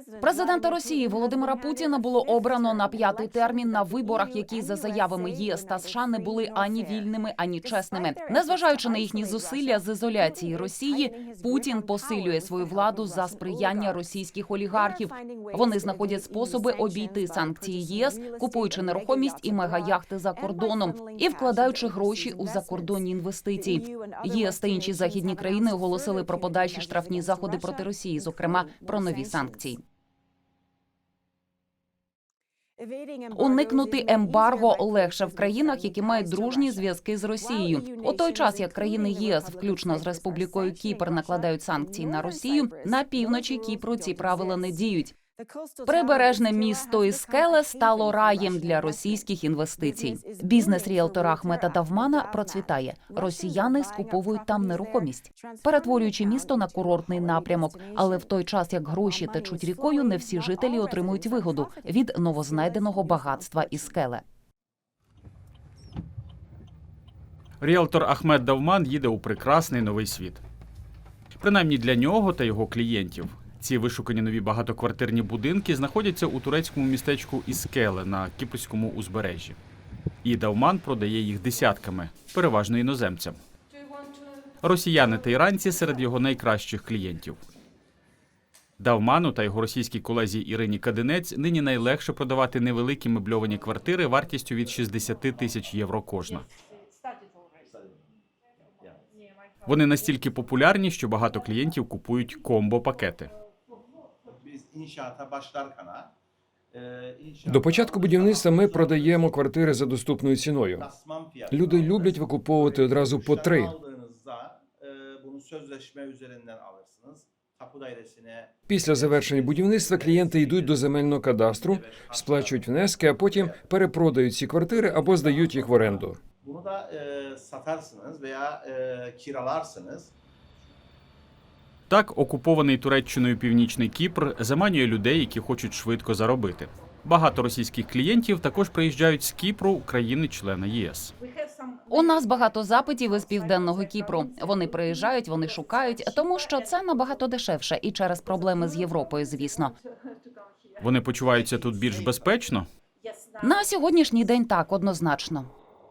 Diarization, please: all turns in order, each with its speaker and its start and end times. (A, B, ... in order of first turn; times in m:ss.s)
0:00.2-0:29.8 A
0:33.3-0:45.2 A
0:45.8-1:04.2 A
1:07.6-1:10.4 B
1:11.4-1:19.6 B
1:20.2-1:23.4 B
1:24.6-1:27.4 B
1:28.8-1:36.5 B
1:39.7-1:43.3 B
1:44.3-1:46.1 C
1:46.8-1:47.5 C
1:47.4-1:50.9 D
1:51.5-1:53.8 D
1:53.3-1:58.5 C
1:58.7-2:06.2 D
2:06.4-2:10.1 C
2:11.9-2:21.1 B
2:21.9-2:29.7 A
2:30.8-2:32.7 B
2:33.4-2:35.5 A